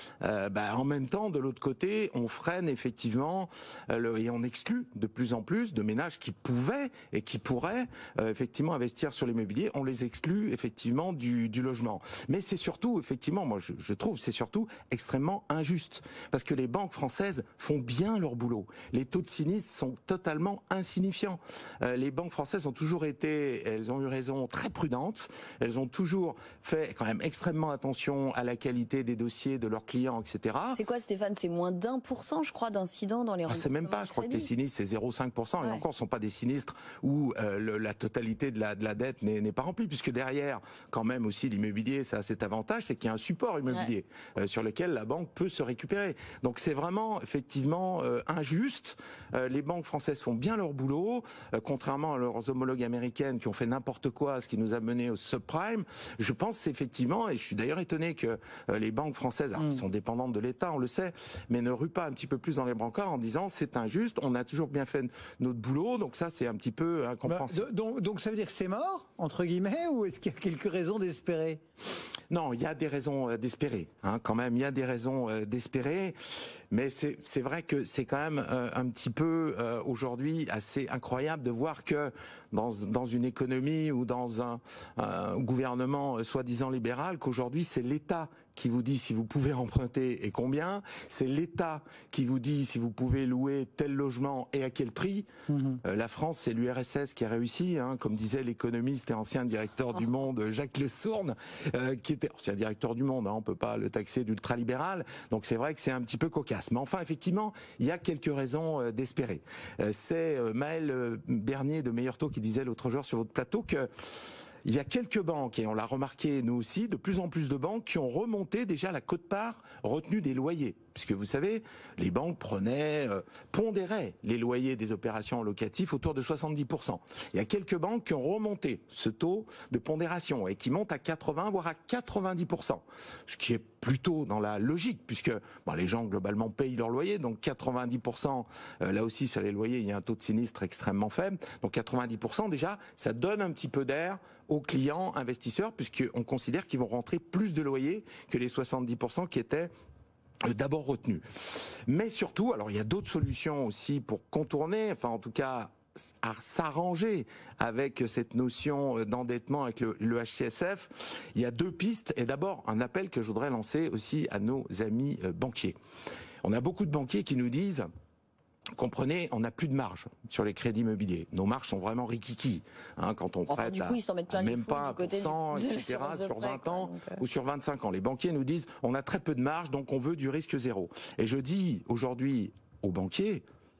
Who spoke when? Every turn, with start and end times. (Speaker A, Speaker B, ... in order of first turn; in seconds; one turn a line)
Speaker A: 0.2-30.8
Speaker B: 30.7-34.5
Speaker A: 33.5-67.7
Speaker B: 35.6-35.8
Speaker C: 67.3-71.6
Speaker A: 72.3-76.2
Speaker A: 76.7-95.3
Speaker C: 95.5-95.8
Speaker A: 95.8-113.9
Speaker A: 114.7-149.7
Speaker A: 150.4-151.2
Speaker A: 151.9-165.8
Speaker A: 166.4-167.9
Speaker A: 168.8-183.4
Speaker B: 173.5-177.2